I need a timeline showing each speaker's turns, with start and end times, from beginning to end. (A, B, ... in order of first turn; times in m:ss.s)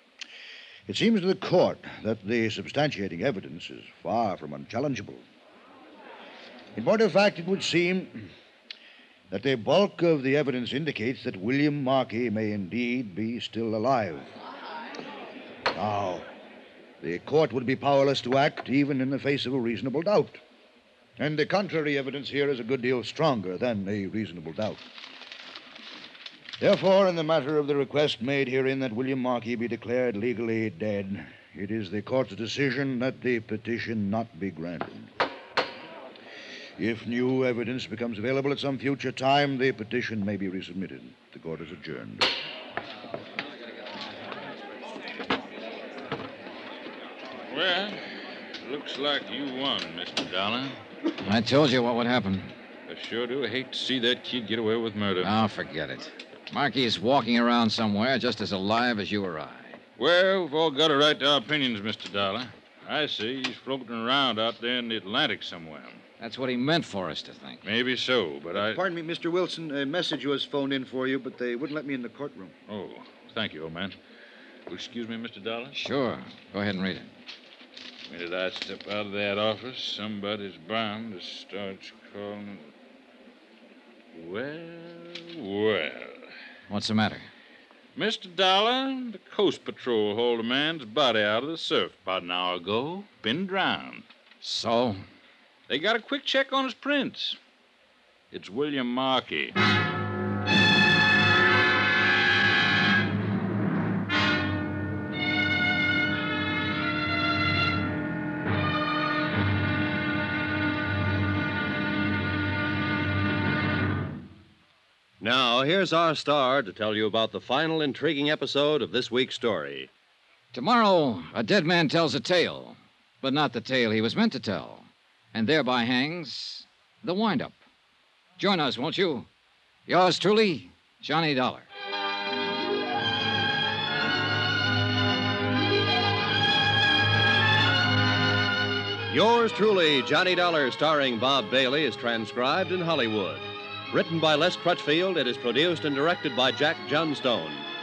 0:00.9-0:05.2 A
0:06.8-0:08.3 A
0:09.3-0:14.3 A
0:15.8-0:16.3 A
0:17.0-0:20.4 A
0:21.2-0:24.8 A
0:26.6-0:35.1 A
0:36.8-0:42.3 A
0:47.5-0:50.8 B
0:51.2-0:52.6 C
0:52.9-0:55.3 B
0:55.2-0:59.8 C
1:00.0-1:06.0 B
1:06.2-1:07.7 C
1:07.6-1:08.8 B
1:08.6-1:12.5 A
1:12.7-1:14.0 B
1:14.7-1:15.8 B
1:15.7-1:17.1 C
1:18.1-1:22.7 B
1:24.1-1:26.2 B
1:26.7-1:27.3 C
1:28.0-1:34.1 B
1:34.4-1:35.0 C
1:35.7-1:37.4 B
1:38.3-1:39.6 B
1:55.2-1:59.9 D
2:00.5-2:07.6 C
2:08.4-2:09.3 C
2:09.9-2:11.7 C
2:19.1-2:27.7 D